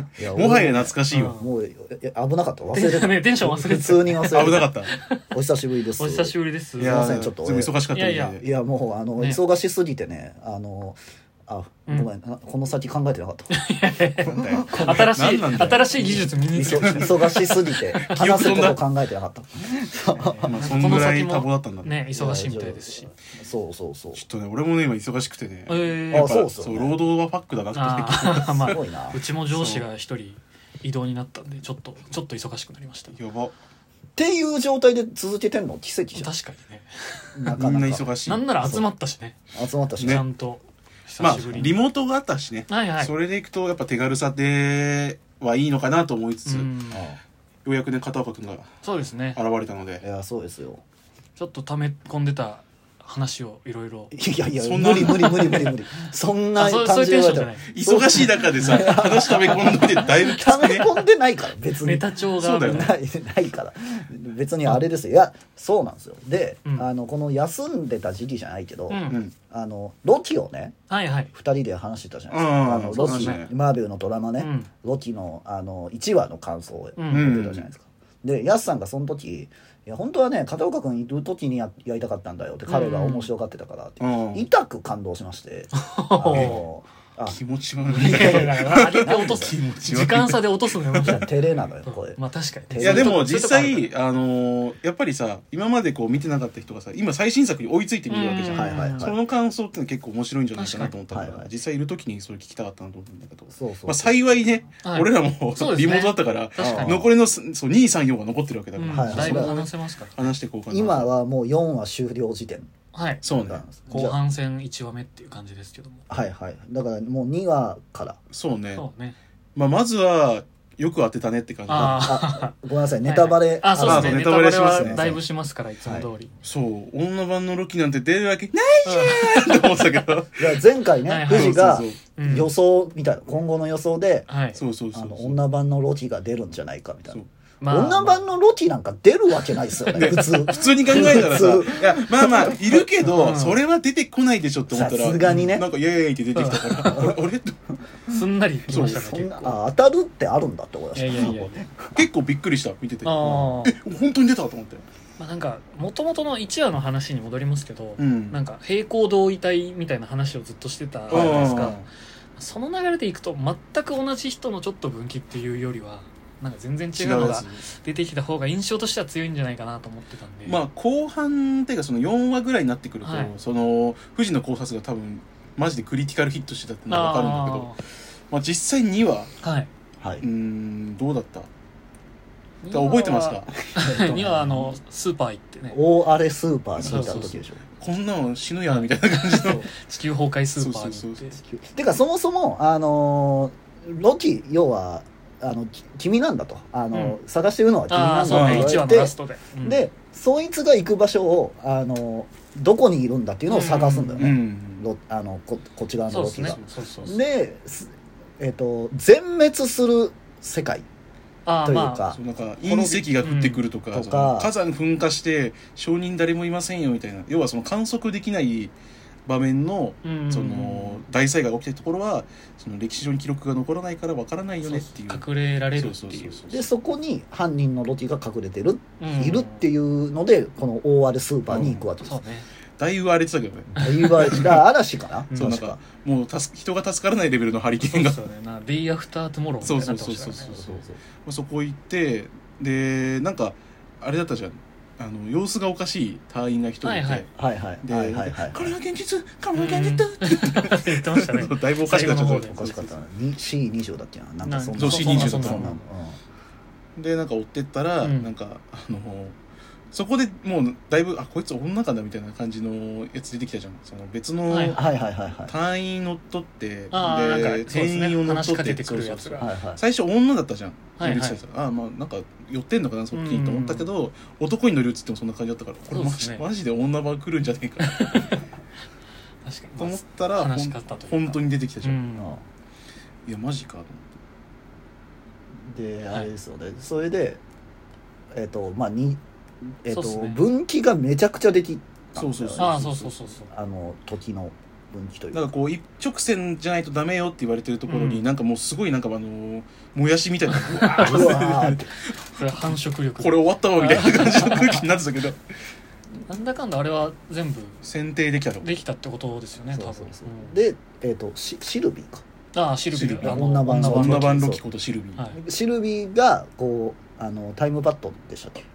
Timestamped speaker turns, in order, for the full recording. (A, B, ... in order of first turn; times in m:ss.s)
0:00.2-0:04.7 A
0:00.2-0:01.4 B
0:01.1-0:01.5 C
0:02.7-0:05.2 C
0:04.2-0:04.9 B
0:05.3-0:07.8 A
0:06.0-0:07.1 C
0:06.8-0:08.5 B
0:07.9-0:08.4 C
0:08.4-0:13.5 A
0:13.5-0:18.8 C
0:14.2-0:18.8 B
0:14.3-0:15.1 A
0:16.5-0:20.6 A
0:20.1-0:23.1 C
0:20.4-0:22.0 B
0:22.1-0:24.2 A
0:24.2-0:28.8 B
0:25.7-0:26.4 C
0:26.1-0:27.0 A
0:27.7-0:33.2 C
0:28.6-0:29.2 A
0:29.5-0:29.9 B
0:33.1-0:33.5 B
0:34.2-0:36.3 A
0:36.1-0:37.6 C
0:37.4-0:38.1 A
0:37.5-0:38.8 B
0:38.3-0:39.4 C
0:38.6-0:38.9 A
0:39.5-0:40.3 A
0:40.0-0:40.3 B
0:40.0-0:41.8 C
0:41.2-0:46.8 B
0:41.2-0:41.8 A
0:42.7-0:43.1 C
0:46.5-0:47.1 C
0:46.9-0:47.2 A
0:47.6-0:48.7 B
0:48.8-0:49.4 C
0:49.3-0:50.0 B
0:50.0-0:50.8 A
0:51.4-0:54.1 C
0:54.1-1:02.1 A
0:54.6-0:55.7 B
0:55.0-0:55.8 C
0:56.6-0:57.7 C
0:57.7-1:01.0 B
0:59.5-0:59.8 C
1:01.8-1:02.9 C
1:02.4-1:02.9 B
1:02.6-1:10.8 A
1:08.9-1:09.2 C
1:10.9-1:11.3 C
1:11.3-1:27.4 A
1:12.3-1:13.5 B
1:12.9-1:13.5 C
1:14.4-1:14.7 C
1:17.0-1:17.3 C
1:17.1-1:17.7 B
1:22.7-1:23.3 C
1:24.0-1:24.5 B
1:25.7-1:26.6 C
1:26.3-1:26.6 B
1:27.3-1:31.3 B
1:27.9-1:31.3 C
1:27.9-1:29.5 A
1:31.0-1:33.2 A
1:31.8-1:33.9 C
1:32.8-1:51.1 B
1:38.1-1:39.1 C
1:38.5-1:39.2 A
1:40.6-1:40.9 C
1:41.1-1:41.5 A
1:43.5-1:44.2 A
1:44.8-1:47.1 C
1:46.6-1:47.1 A
1:48.8-1:50.3 C
1:48.9-1:49.6 A
1:50.7-1:52.7 A
1:52.9-1:53.2 C
1:53.2-1:53.6 B
1:53.4-1:54.2 A
1:53.9-1:56.1 C
1:56.1-1:58.2 A
1:58.3-1:58.9 B
1:58.7-1:59.2 C
1:59.6-2:02.1 B
2:01.7-2:06.3 C
2:01.7-2:05.2 A
2:03.8-2:05.2 B
2:06.4-2:10.7 B
2:08.8-2:10.0 C
2:10.4-2:14.3 A
2:11.1-2:12.5 C
2:11.3-2:12.0 B
2:14.3-2:14.6 C
2:14.6-2:15.4 B
2:14.9-2:22.9 A
2:17.6-2:18.2 C
2:19.9-2:27.6 B
2:23.0-2:23.6 C
2:24.7-2:25.7 A
2:26.4-2:27.1 C
2:26.9-2:27.2 A
2:28.1-2:29.6 C
2:28.1-2:32.0 A
2:28.7-2:29.0 B
2:31.0-2:31.6 C
2:32.0-2:34.8 B
2:33.0-2:33.8 C
2:33.2-2:33.6 A
2:35.2-2:41.8 C
2:38.0-2:38.4 B
2:41.1-2:41.6 A
2:41.1-2:41.9 B
2:42.4-2:50.6 C
2:47.0-2:47.7 B
2:50.4-2:59.3 B
2:53.0-2:53.3 C
2:56.9-2:57.8 C
2:59.4-2:59.7 C
3:00.0-3:00.2 A
3:00.2-3:01.5 B
3:02.6-3:05.9 C
3:02.7-3:03.6 B
3:03.7-3:04.8 A
3:05.7-3:07.6 A
3:06.8-3:07.4 C
3:06.8-3:09.6 B
3:08.7-3:11.4 C
3:10.6-3:11.3 B
3:11.5-3:30.9 A
3:16.9-3:17.2 C
3:17.9-3:19.9 C
3:18.3-3:18.8 B
3:23.5-3:24.3 C
3:24.2-3:24.9 B
3:26.1-3:27.2 C
3:26.4-3:26.8 B
3:31.4-3:32.2 C
3:31.6-3:33.1 A
3:32.1-3:38.7 B
3:32.8-3:33.6 C
3:33.9-3:34.5 A
3:39.3-3:46.7 B
3:40.0-3:41.0 C
3:44.6-3:46.4 C
3:46.5-3:52.2 A
3:49.0-3:49.7 C
3:51.5-3:51.9 B
3:52.0-3:52.5 C
3:52.8-3:54.6 B
3:53.8-3:55.8 A
3:55.4-3:58.2 B
3:57.8-4:00.6 C
3:59.6-4:07.3 B
4:00.5-4:01.0 A
4:06.8-4:07.3 C
4:07.4-4:08.8 A
4:07.8-4:12.9 B
4:09.5-4:12.6 C
4:12.0-4:16.2 A
4:14.4-4:15.8 C
4:14.8-4:15.7 B
4:17.0-4:19.4 B
4:18.0-4:18.3 C
4:19.9-4:24.9 B
4:24.5-4:24.8 C
4:24.7-4:25.5 A
4:25.5-4:38.3 B
4:26.9-4:29.5 C
4:29.4-4:29.8 A
4:31.0-4:31.4 C
4:33.1-4:33.9 C
4:35.9-4:36.5 C
4:37.8-4:38.5 C
4:39.4-4:42.4 C
4:39.8-4:42.0 B
4:42.2-4:42.4 A
4:43.3-4:44.2 B
4:45.7-4:47.4 A
4:48.3-4:49.2 A
4:49.8-4:52.7 A
4:49.9-4:50.4 C
4:52.2-4:53.2 B
4:52.6-4:53.5 C
4:53.5-4:55.5 A
4:55.3-5:05.4 B
4:57.9-4:58.3 C
5:00.6-5:01.4 C
5:01.0-5:01.9 A
5:02.3-5:04.9 C
5:06.3-5:07.8 C
5:07.8-5:08.8 B
5:08.6-5:10.6 C
5:09.7-5:12.2 A
5:12.5-5:14.4 C
5:12.9-5:15.3 B
5:13.2-5:14.6 A
5:15.3-5:18.6 A